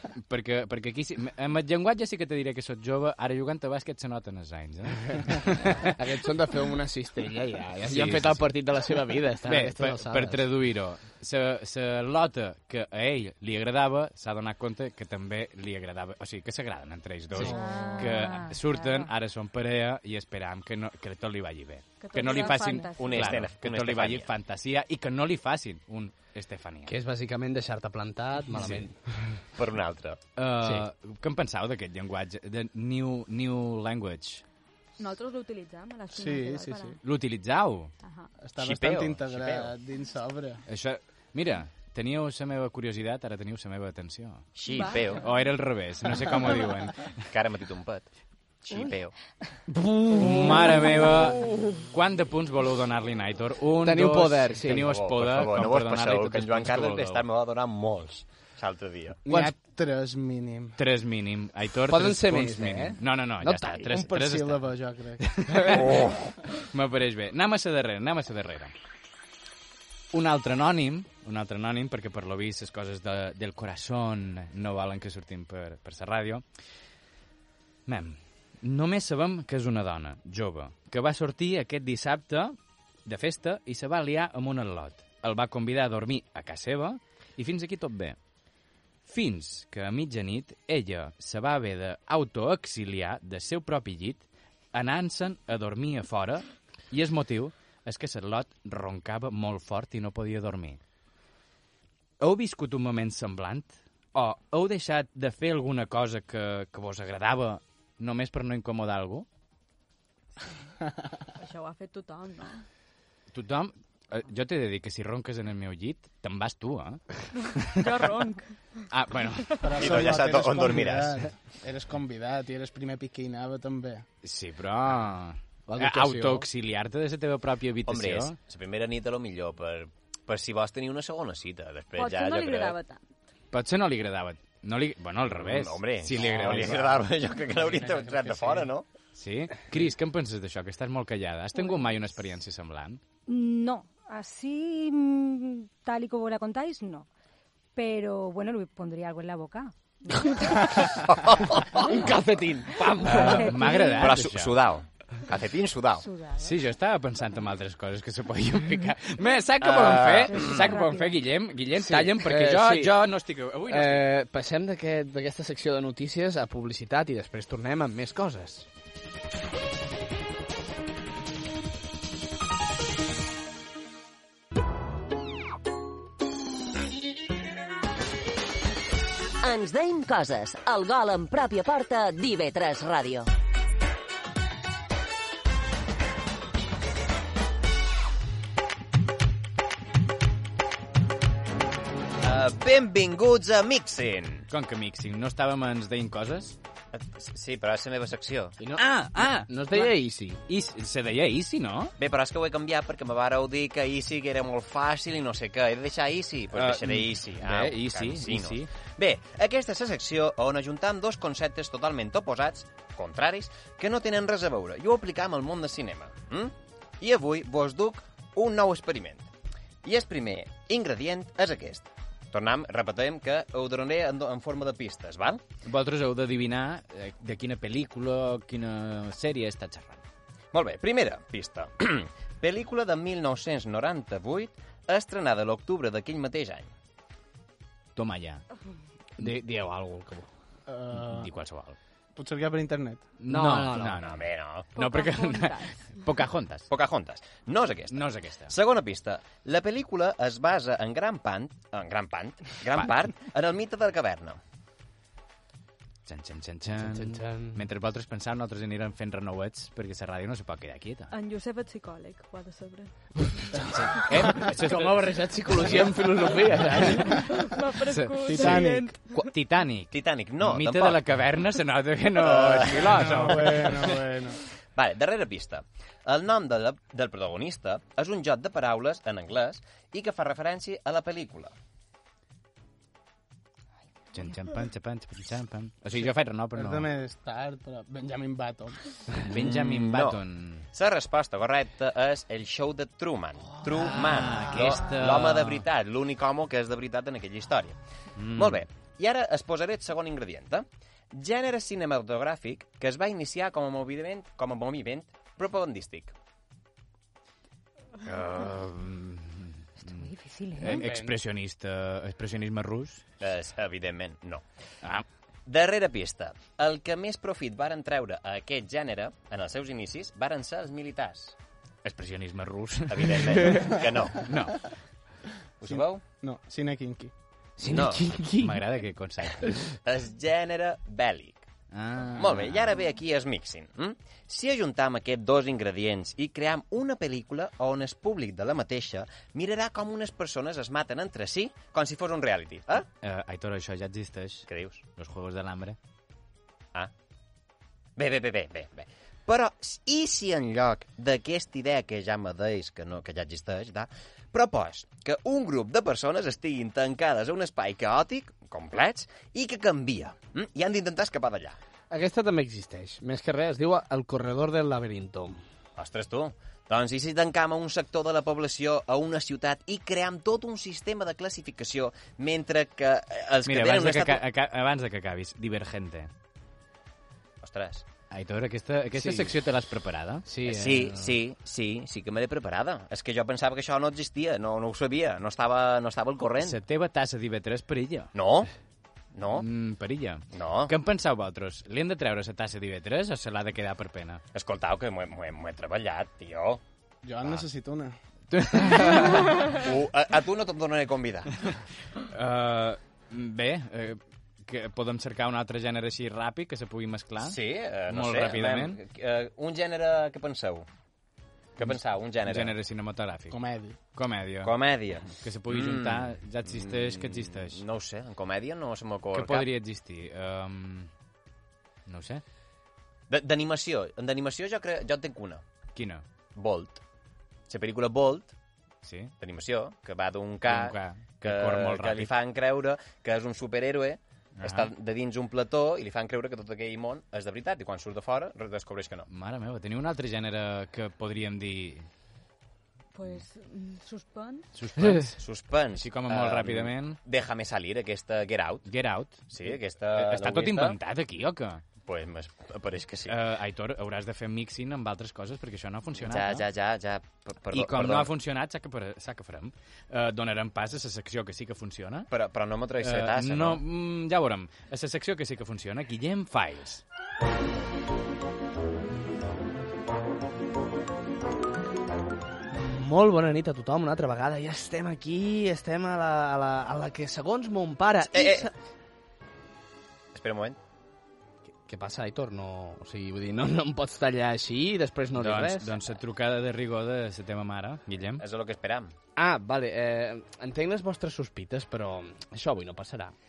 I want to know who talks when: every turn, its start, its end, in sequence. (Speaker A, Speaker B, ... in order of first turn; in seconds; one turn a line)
Speaker A: 0.1-5.9
Speaker B: 5.8-10.6
Speaker A: 7.8-8.5
Speaker A: 9.4-26.9
Speaker C: 17.4-19.1
Speaker D: 22.0-23.3
Speaker E: 22.9-24.3
Speaker B: 26.9-29.4
Speaker A: 28.5-28.9
Speaker E: 29.5-30.2
Speaker A: 30.4-34.4
Speaker D: 35.0-37.0
Speaker F: 36.1-37.0
Speaker A: 37.0-37.9
Speaker D: 38.0-38.3
Speaker F: 38.4-40.6
Speaker E: 38.6-39.7
Speaker A: 40.7-44.5
Speaker E: 44.5-45.2
Speaker D: 44.6-45.1
Speaker A: 45.1-47.2
Speaker E: 47.3-48.1
Speaker E: 48.6-49.1
Speaker B: 49.7-51.5
Speaker A: 50.1-57.2
Speaker B: 53.8-54.9
Speaker E: 54.7-59.2
Speaker F: 59.2-60.8
Speaker B: 59.3-59.5
Speaker A: 60.8-66.1
Speaker B: 61.9-63.9
Speaker F: 63.9-65.3
Speaker E: 65.7-66.2
Speaker A: 66.6-68.7
Speaker A: 70.1-76.4
Speaker A: 77.8-88.2
Speaker A: 89.0-100.8
Speaker A: 102.2-109.3
Speaker D: 111.3-112.6
Speaker A: 113.3-117.8
Speaker D: 117.7-118.5
Speaker A: 118.9-119.6
Speaker F: 119.6-124.0
Speaker E: 119.8-121.3
Speaker A: 124.2-128.4
Speaker B: 125.7-126.5
Speaker E: 127.8-132.8
Speaker D: 131.9-133.1
Speaker A: 133.5-136.9
Speaker E: 135.3-138.9
Speaker F: 137.5-138.7
Speaker A: 139.1-143.0
Speaker C: 143.3-147.1
Speaker C: 147.7-150.9
Speaker E: 150.9-151.9
Speaker B: 151.8-153.6
Speaker C: 152.7-154.2
Speaker A: 153.0-154.5
Speaker E: 154.0-156.1
Speaker C: 156.0-156.6
Speaker A: 156.4-164.1
Speaker E: 159.6-160.7
Speaker C: 160.3-161.1
Speaker B: 161.8-162.9
Speaker B: 163.7-168.7
Speaker G: 179.4-183.3
Speaker E: 192.2-194.5
Speaker A: 194.5-196.6
Speaker E: 196.9-198.6
Speaker B: 198.6-200.4
Speaker A: 198.8-201.9
Speaker E: 202.0-219.3
Speaker A: 206.5-208.7
Speaker E: 219.8-225.4
Speaker A: 225.6-230.0
Speaker E: 230.5-236.7
Speaker A: 237.9-238.4
Speaker B: 239.2-240.2
Speaker F: 240.7-241.3
Speaker A: 240.9-241.8
Speaker F: 242.2-243.1
Speaker A: 243.2-246.7
Speaker B: 243.3-244.0
Speaker E: 244.0-244.7
Speaker D: 244.7-245.9
Speaker E: 246.7-254.4
Speaker A: 247.9-248.5
Speaker A: 256.1-261.1
Speaker B: 256.8-257.6
Speaker D: 261.1-263.6
Speaker B: 263.5-267.2
Speaker A: 263.6-265.9
Speaker A: 266.6-267.3
Speaker D: 267.0-269.1
Speaker A: 267.9-274.0
Speaker F: 268.2-268.9
Speaker E: 269.9-271.0
Speaker E: 272.1-273.2
Speaker F: 272.9-274.4
Speaker E: 274.7-281.5
Speaker A: 284.1-286.9
Speaker F: 286.6-288.9
Speaker A: 289.2-290.6
Speaker E: 289.3-290.2
Speaker E: 290.7-306.1
Speaker A: 293.6-295.6
Speaker A: 298.1-298.6
Speaker A: 308.0-313.0
Speaker C: 309.8-311.0
Speaker F: 310.7-311.1
Speaker E: 313.2-314.4
Speaker E: 315.4-321.4
Speaker A: 321.8-324.6
Speaker E: 322.9-324.3
Speaker E: 325.6-326.0
Speaker F: 325.6-327.1
Speaker B: 327.6-328.6
Speaker E: 327.6-328.1
Speaker A: 328.4-329.6
Speaker E: 329.8-331.5
Speaker A: 331.7-332.7
Speaker E: 332.1-342.9
Speaker A: 343.0-345.8
Speaker E: 344.5-344.8
Speaker E: 347.9-361.6
Speaker B: 361.9-365.4
Speaker E: 365.8-374.2
Speaker A: 373.4-376.1
Speaker E: 377.4-377.8
Speaker A: 378.1-380.2
Speaker B: 379.0-379.3
Speaker B: 380.3-381.1
Speaker E: 380.4-386.6
Speaker A: 386.4-388.1
Speaker E: 388.1-388.5
Speaker E: 389.1-389.5
Speaker A: 389.3-394.2
Speaker E: 390.3-390.7
Speaker E: 394.3-396.6
Speaker F: 397.0-397.9
Speaker A: 398.3-399.3
Speaker E: 399.4-401.4
Speaker A: 402.0-408.8
Speaker E: 407.2-410.7
Speaker E: 411.6-412.5
Speaker A: 412.2-413.4
Speaker F: 413.3-413.8
Speaker A: 413.9-414.5
Speaker E: 414.4-419.5
Speaker A: 415.1-417.6
Speaker A: 419.1-420.9
Speaker A: 421.9-422.2
Speaker E: 423.1-425.4
Speaker A: 425.7-426.0
Speaker E: 426.3-426.8
Speaker E: 427.5-428.3
Speaker A: 428.8-429.1
Speaker E: 429.2-439.1
Speaker A: 430.4-432.1
Speaker A: 434.4-434.7
Speaker A: 439.1-441.9
Speaker D: 442.9-444.5
Speaker A: 444.5-445.2
Speaker E: 445.0-448.7
Speaker A: 445.8-447.0
Speaker A: 448.7-449.3
Speaker E: 449.3-450.8
Speaker A: 449.9-451.6
Speaker E: 451.8-453.2
Speaker A: 453.1-456.5
Speaker E: 455.9-458.1
Speaker A: 457.5-462.1
Speaker E: 462.1-463.6
Speaker A: 462.8-466.8
Speaker B: 472.5-478.5
Speaker E: 478.1-478.5
Speaker E: 480.1-480.6
Speaker B: 481.6-485.7
Speaker A: 485.1-488.2
Speaker E: 488.2-488.9
Speaker B: 489.1-493.1